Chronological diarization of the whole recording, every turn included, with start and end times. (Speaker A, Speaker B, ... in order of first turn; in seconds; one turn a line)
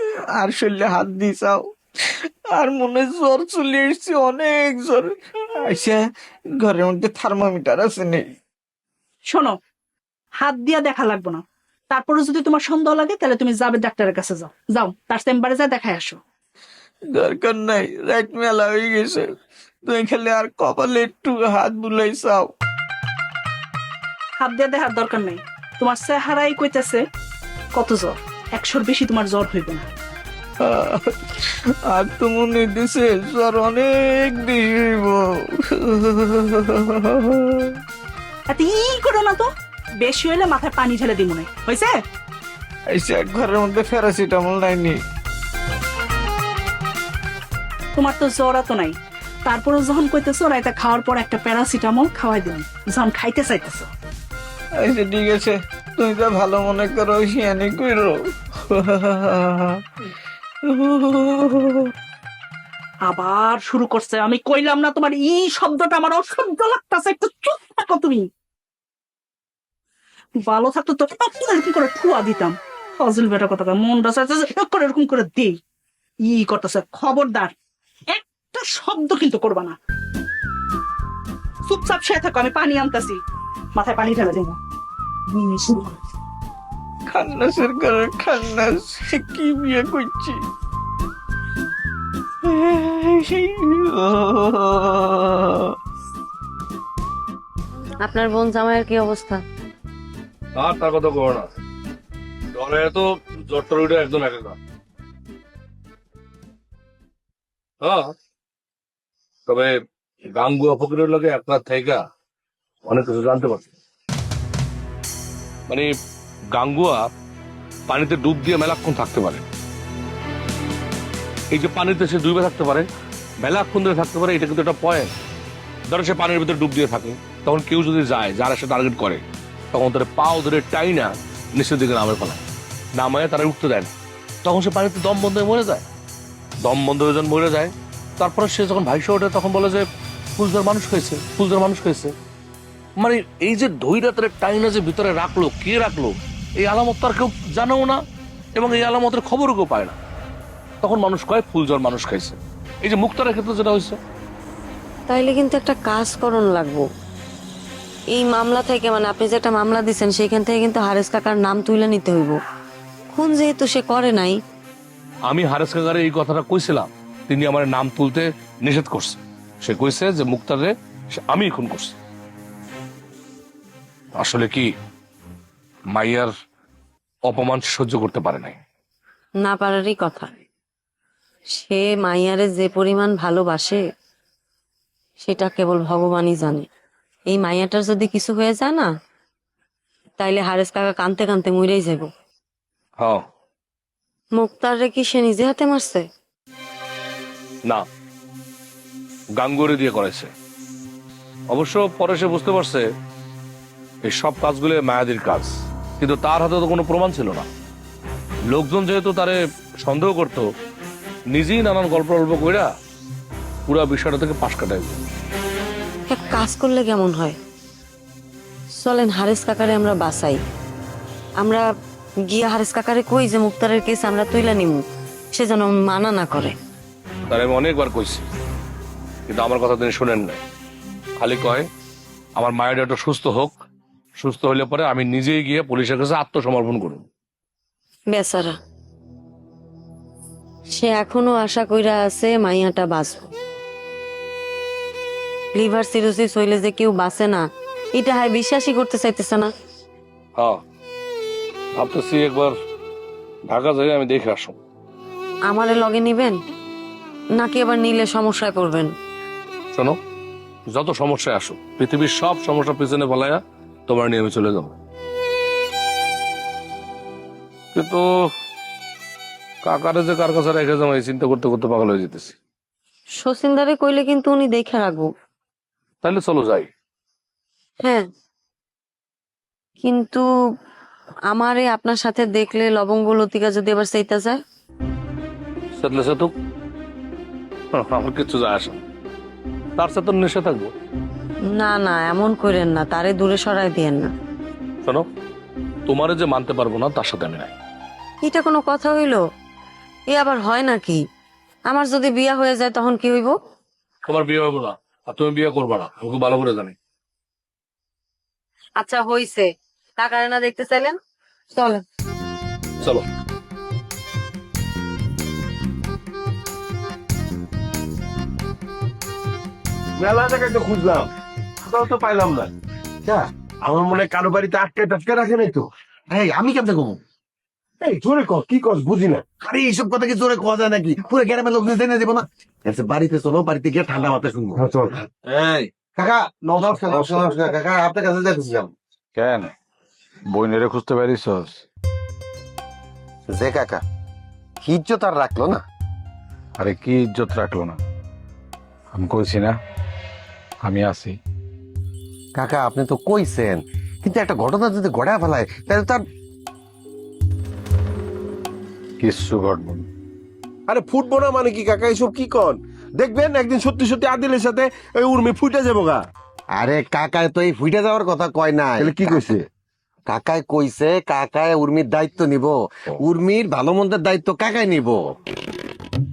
Speaker A: 0.4-1.7
Speaker A: 2.5-6.0
Speaker A: 6.6-8.3
Speaker B: 10.4-11.4
Speaker B: 11.9-16.1
Speaker A: 17.1-19.3
Speaker A: 19.9-22.5
Speaker B: 24.5-27.0
Speaker B: 27.8-29.9
Speaker A: 30.6-31.2
Speaker A: 31.9-37.7
Speaker B: 38.6-39.4
Speaker B: 40.1-41.9
Speaker A: 42.9-45.0
Speaker B: 48.0-48.9
Speaker B: 49.5-53.9
Speaker A: 54.8-58.2
Speaker A: 58.7-59.8
Speaker A: 60.7-61.9
Speaker B: 63.1-68.2
Speaker B: 70.5-72.5
Speaker B: 73.1-75.5
Speaker B: 76.4-77.5
Speaker B: 78.5-79.7
Speaker B: 81.7-83.2
Speaker B: 83.8-84.5
Speaker A: 87.1-90.4
Speaker A: 92.5-95.7
Speaker C: 98.0-99.4
Speaker D: 100.6-101.5
Speaker D: 102.5-104.6
Speaker D: 107.8-108.1
Speaker D: 109.5-109.7
Speaker D: 110.3-112.0
Speaker D: 112.9-113.7
Speaker D: 116.5-117.1
Speaker D: 117.9-119.4
Speaker D: 121.5-122.9
Speaker D: 123.4-125.1
Speaker D: 125.9-132.4
Speaker D: 133.0-133.9
Speaker D: 134.4-135.8
Speaker D: 136.6-139.9
Speaker D: 140.4-142.1
Speaker D: 143.0-148.0
Speaker D: 148.6-149.9
Speaker D: 150.8-154.0
Speaker C: 155.1-156.8
Speaker C: 158.1-162.4
Speaker C: 163.1-164.4
Speaker D: 165.3-170.7
Speaker D: 171.3-171.9
Speaker D: 174.2-174.7
Speaker D: 175.9-176.3
Speaker D: 177.3-178.6
Speaker C: 179.4-180.3
Speaker C: 181.6-183.8
Speaker C: 185.2-186.7
Speaker C: 187.3-188.9
Speaker C: 190.2-192.1
Speaker C: 194.4-196.0
Speaker D: 199.4-200.3
Speaker D: 201.5-202.8
Speaker D: 204.1-207.5
Speaker D: 208.5-210.4
Speaker D: 211.3-212.7
Speaker D: 213.7-215.0
Speaker C: 216.1-217.4
Speaker C: 218.8-220.4
Speaker C: 221.4-221.7
Speaker C: 222.3-224.8
Speaker C: 225.3-226.6
Speaker D: 227.3-228.2
Speaker D: 229.3-230.4
Speaker D: 231.2-231.7
Speaker D: 232.4-233.5
Speaker D: 234.2-237.0
Speaker C: 238.1-238.6
Speaker C: 240.7-243.3
Speaker C: 245.5-249.5
Speaker D: 251.8-252.5
Speaker D: 253.5-254.6
Speaker C: 255.5-256.4
Speaker C: 257.4-258.9
Speaker D: 260.7-264.7
Speaker D: 267.7-268.1
Speaker D: 269.6-272.4
Speaker C: 273.2-275.1
Speaker D: 276.0-276.7
Speaker C: 279.8-280.3
Speaker C: 281.3-284.4
Speaker D: 285.8-286.3
Speaker D: 287.7-288.8
Speaker D: 289.8-290.7
Speaker C: 291.5-294.1
Speaker D: 295.9-297.5
Speaker C: 298.2-299.2
Speaker C: 300.1-301.0
Speaker C: 301.7-303.4
Speaker D: 304.1-306.8
Speaker C: 308.8-311.0
Speaker C: 311.6-311.8
Speaker E: 320.0-321.1
Speaker E: 321.7-322.5
Speaker E: 323.6-325.7
Speaker F: 326.1-327.0
Speaker E: 327.8-329.2
Speaker F: 329.4-334.7
Speaker F: 336.0-338.7
Speaker G: 339.2-339.5
Speaker G: 340.3-341.6
Speaker F: 343.3-343.8
Speaker F: 344.6-345.6
Speaker G: 346.6-347.8
Speaker G: 348.9-349.5
Speaker G: 350.6-351.2
Speaker F: 352.4-356.0
Speaker G: 359.0-359.9
Speaker E: 360.7-366.1
Speaker F: 366.6-369.3
Speaker E: 368.9-369.3
Speaker F: 370.1-375.0